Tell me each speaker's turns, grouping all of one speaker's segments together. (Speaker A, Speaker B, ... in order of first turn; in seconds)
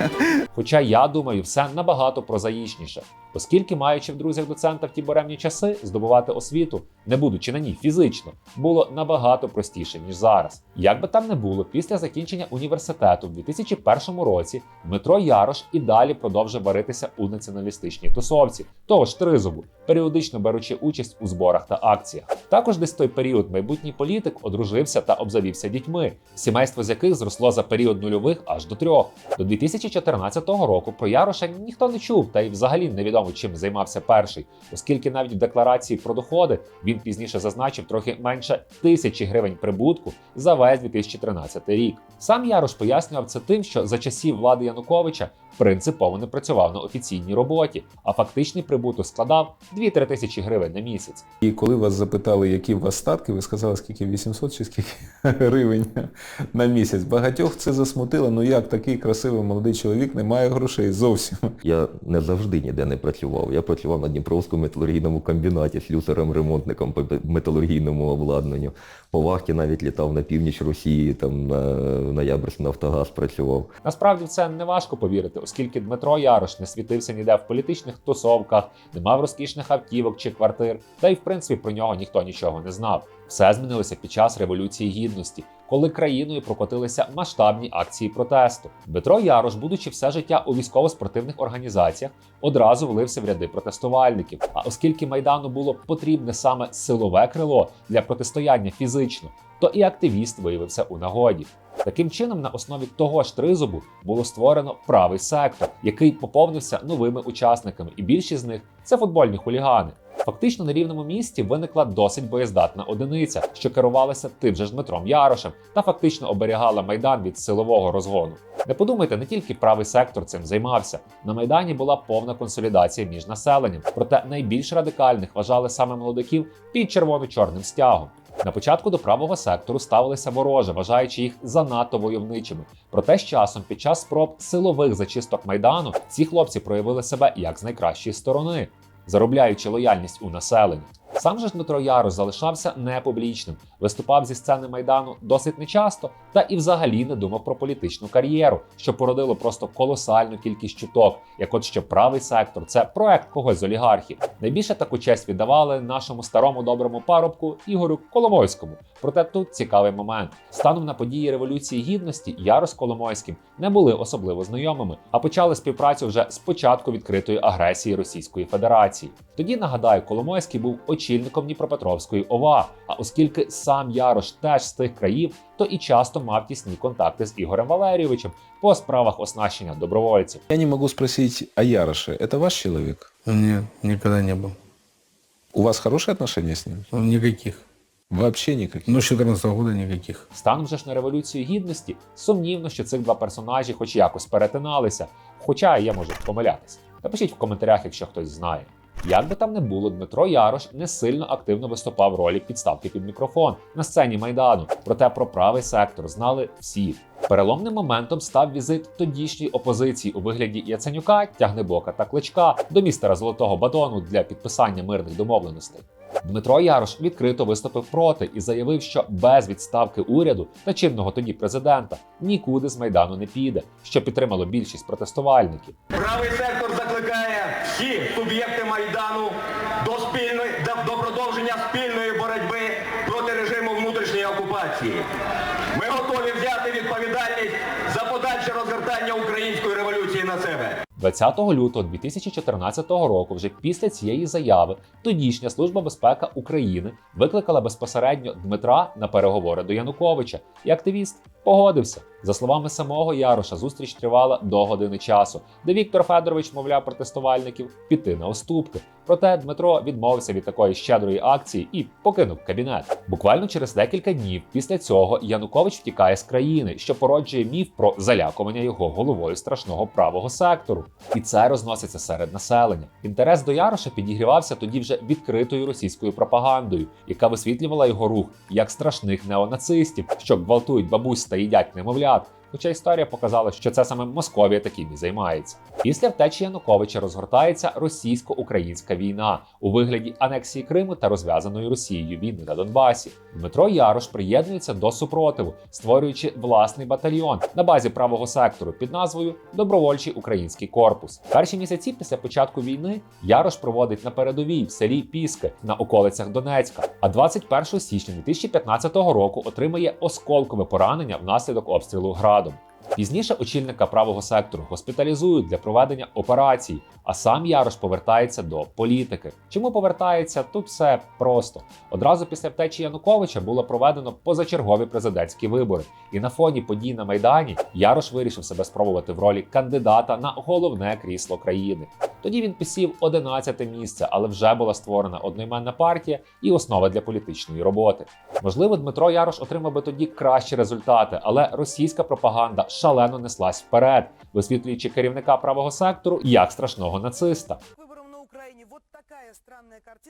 Speaker A: 0.5-51.2, 73.8-180.4, 190.3-225.8, 241.0-347.6
Speaker B: 51.4-61.5, 180.5-183.1, 185.5-186.8, 188.1-189.0
Speaker C: 61.6-73.7
Speaker D: 183.2-184.5, 186.9-187.6, 188.9-190.2
Speaker E: 225.9-235.1, 235.7-240.8